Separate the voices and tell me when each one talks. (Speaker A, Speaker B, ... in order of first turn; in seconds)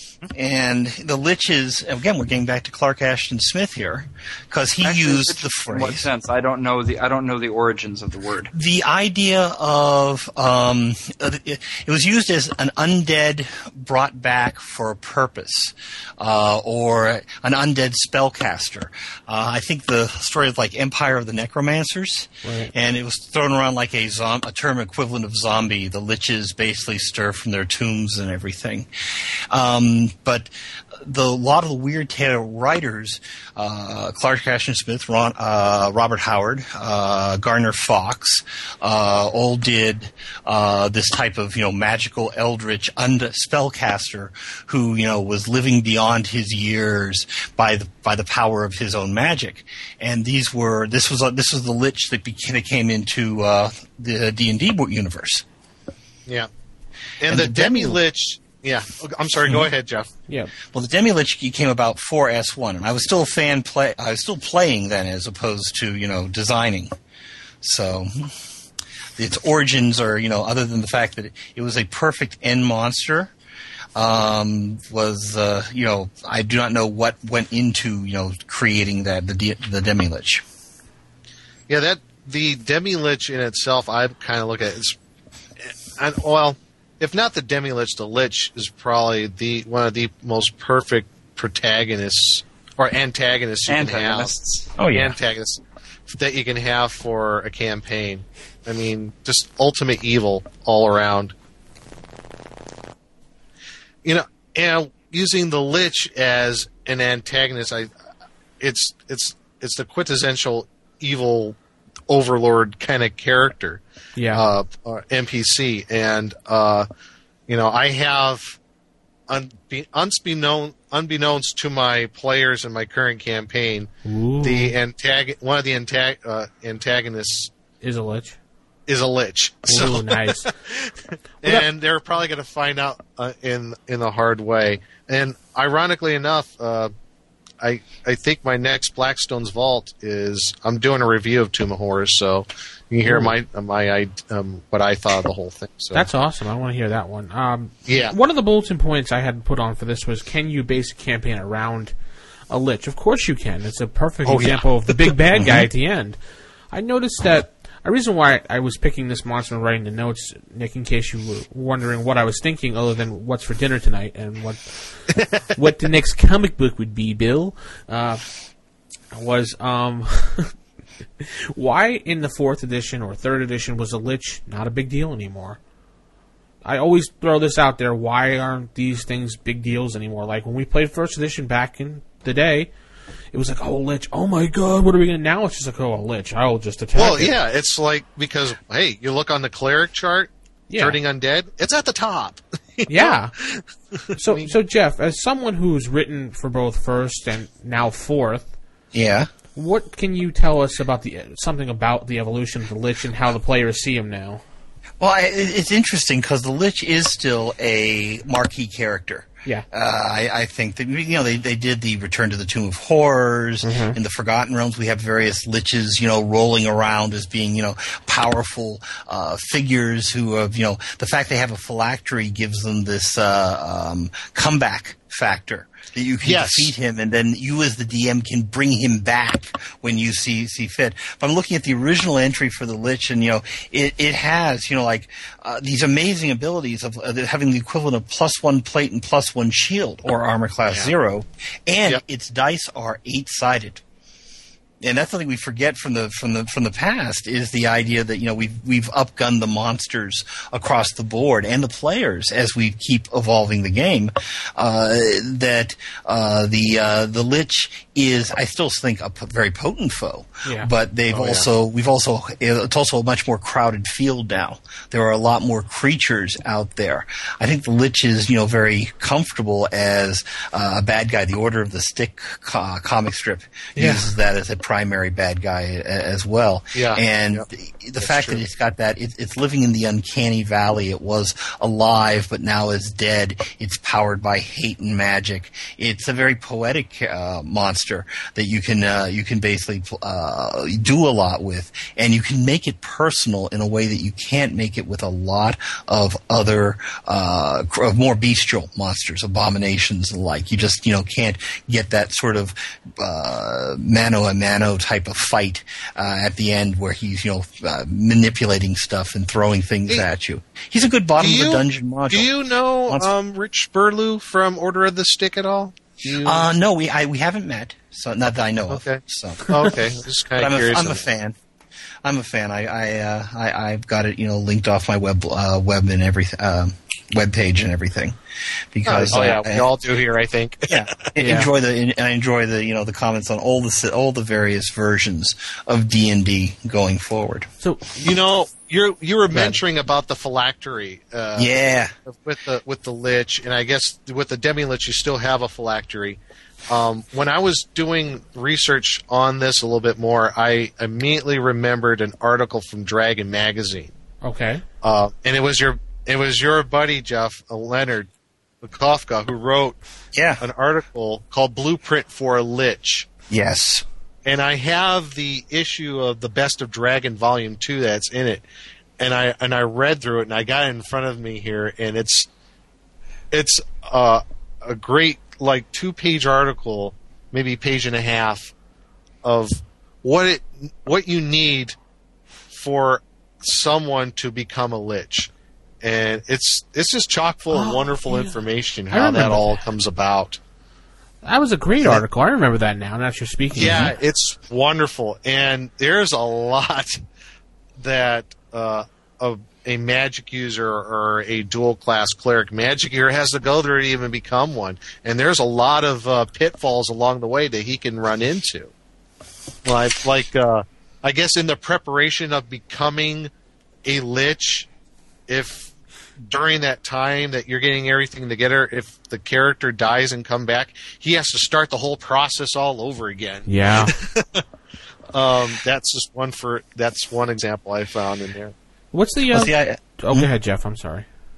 Speaker A: 0.3-6.1, 8.5-28.9, 29.5-30.5, 31.0-55.5, 57.3-58.0, 60.7-66.9, 67.6-68.3, 69.2-73.3, 74.0-80.5, 94.8-95.2, 155.4-155.7, 198.9-199.3, 205.0-243.8, 244.8-312.3, 316.2-319.6, 320.4-321.4, 322.0-328.2, 328.7-329.7, 330.7-337.5, 341.4-341.9, 360.1-360.4, 363.3-363.9, 429.3-430.3
Speaker B: 4.8-8.5, 93.7-94.7
Speaker C: 22.4-22.7, 114.2-114.5, 124.1-124.8, 127.8-128.4, 129.7-130.5, 143.1-143.3, 145.9-152.0, 152.5-156.2, 156.7-168.3, 169.1-170.5, 171.2-175.6, 176.6-182.7, 183.3-187.3, 190.7-191.0, 192.9-193.3, 194.2-198.5, 199.6-204.4, 213.6-214.0, 260.4-260.7, 329.1-329.4, 331.2-331.5, 337.6-338.2, 339.3-339.6, 354.2-354.6, 387.5-388.4, 388.9-389.6, 391.2-393.9, 423.5-423.9, 428.9-431.1
Speaker D: 57.2-60.1, 81.7-85.0, 85.6-94.3, 94.9-101.3, 104.0-107.9, 108.6-111.6, 112.1-113.8, 114.3-116.9, 117.5-118.6, 119.3-127.5, 128.9-136.9, 137.6-146.1, 147.9-148.2, 154.2-155.1, 187.0-194.5, 226.2-226.7, 240.7-240.9, 261.1-261.5, 276.8-277.5, 278.0-278.4, 311.2-316.5, 318.7-321.0, 328.9-331.1, 338.0-353.9, 354.8-358.1, 358.6-359.8, 360.4-363.1, 364.2-368.4, 369.0-372.3, 373.3-378.5, 379.2-381.8, 382.5-385.3, 385.8-390.4, 393.5-397.0, 397.8-408.7, 409.6-413.3, 413.9-414.7, 415.3-415.7, 416.3-424.4, 425.1-428.5